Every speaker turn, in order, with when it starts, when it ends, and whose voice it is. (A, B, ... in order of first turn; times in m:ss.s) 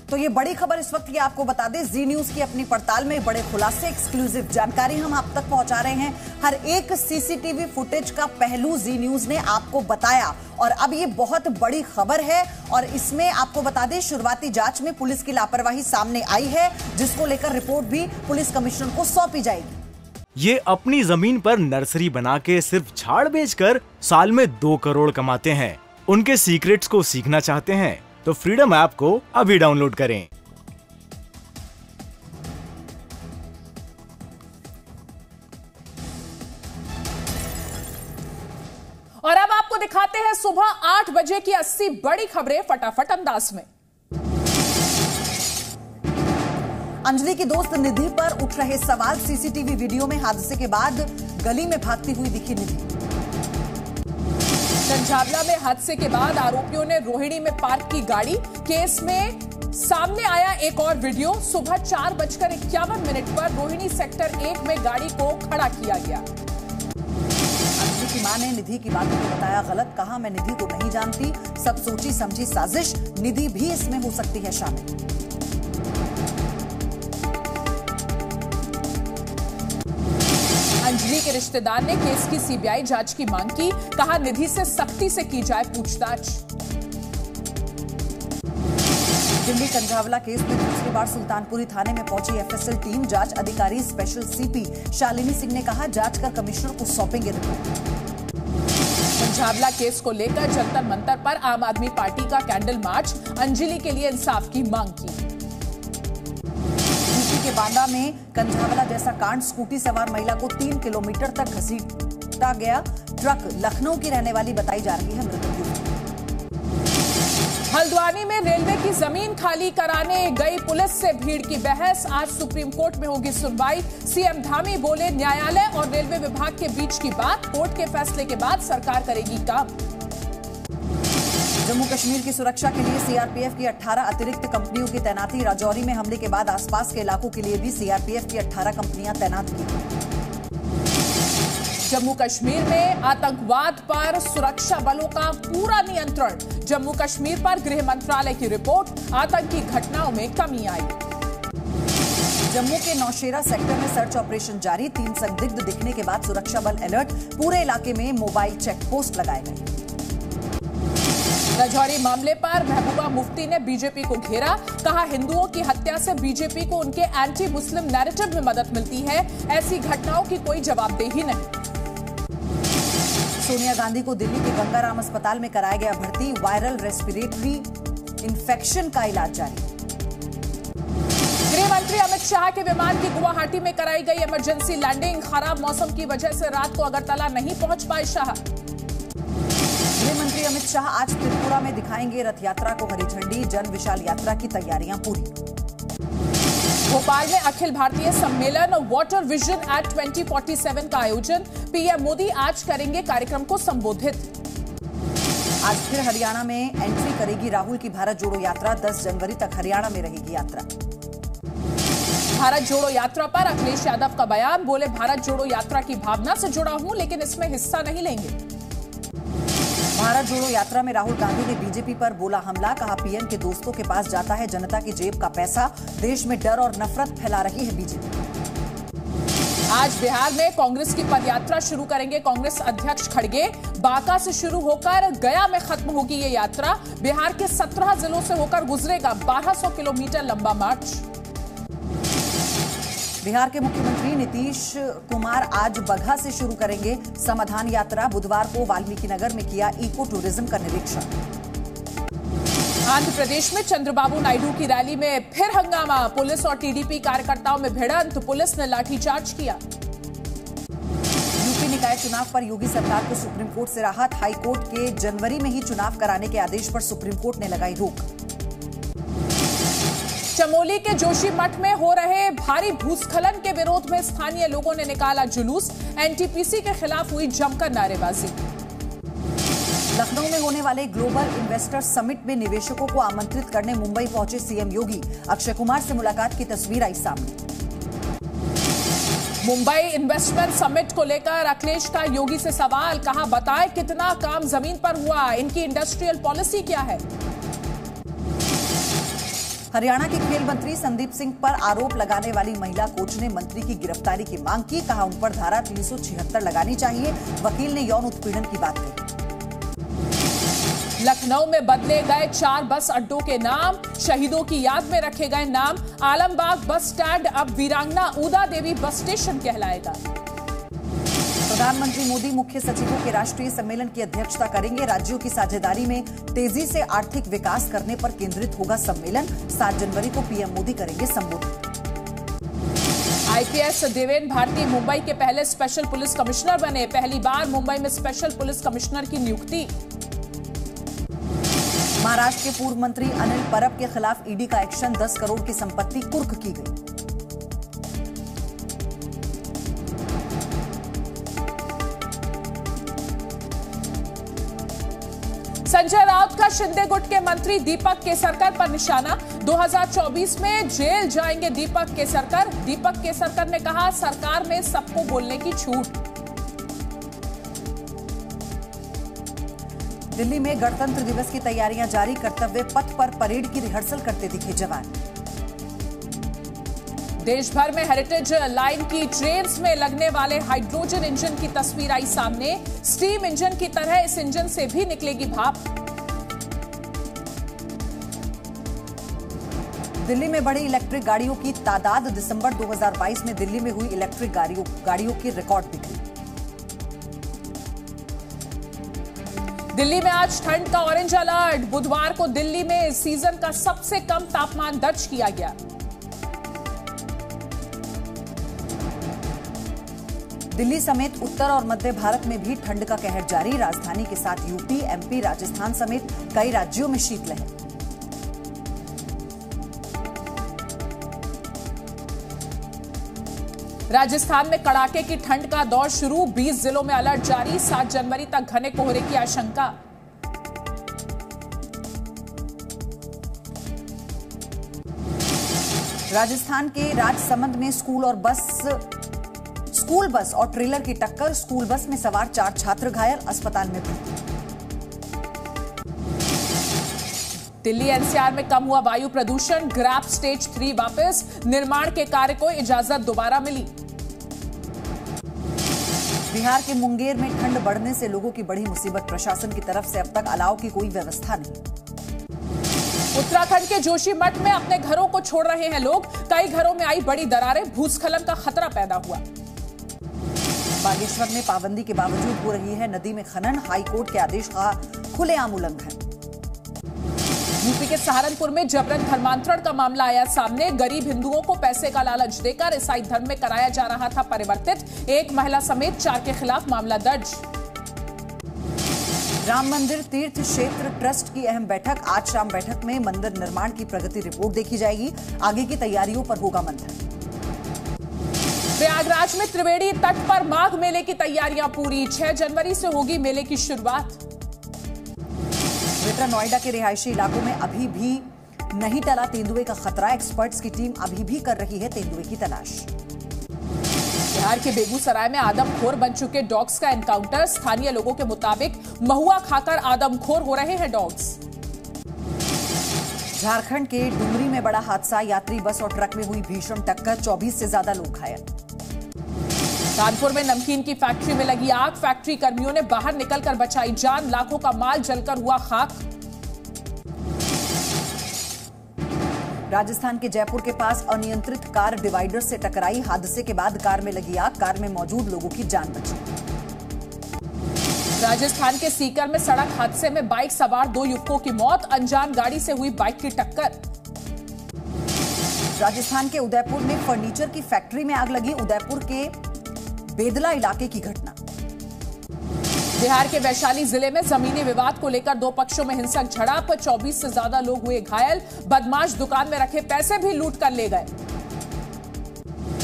0:00.1-0:19.8 A
0:20.4-0:30.3 B
0:39.2-0:43.7 C
0:47.0-0:52.9 A
0:54.9-1:06.3 C
1:07.8-1:14.9 A
1:20.8-1:26.4 C
1:29.4-1:37.7 A
1:39.2-1:45.2 C
1:47.0-1:56.0 A
1:57.7-2:09.7 C
2:11.6-2:19.8 A
2:21.9-2:31.0 C
2:32.5-2:39.7 A
2:41.6-2:51.5 C
2:53.4-2:57.7 A
2:58.2-2:59.7 A
3:01.5-3:08.4 C
3:10.0-3:15.3 A
3:16.9-3:24.3 C
3:25.6-3:30.7 A
3:32.3-3:38.4 C
3:39.9-3:48.2 A
3:49.7-4:01.0 C
4:03.2-4:11.1 A
4:12.9-4:19.6 C
4:21.4-4:28.1 A
4:30.4-4:38.4 C
4:39.9-4:47.4 A
4:49.4-4:57.0 C
4:59.7-5:09.1 A
5:11.0-5:20.0 C
5:21.5-5:31.6 A
5:33.3-5:39.7 C
5:42.0-5:46.8 A
5:55.6-6:06.0 C
6:10.1-6:15.0 A
6:17.2-6:25.6 C
6:30.0-6:36.0 A
6:39.7-6:45.6 C
6:50.5-6:57.5 A
7:03.9-7:09.7 C
7:16.1-7:18.8 A
7:19.7-7:24.2 A
7:27.6-7:33.7 C
7:36.3-7:41.6 A
7:43.1-7:49.2 C
7:50.8-7:56.0 A
7:57.6-8:07.4 C
8:09.4-8:17.0 A
8:18.8-8:24.2 C
8:26.0-8:32.9 A
8:34.3-8:41.4 C
8:43.4-8:48.4 A
8:50.0-8:56.0 C
8:59.7-9:06.2 A
9:08.2-9:13.8 C
9:15.8-9:19.4 A
9:20.1-9:21.4 A
9:23.0-9:31.1 C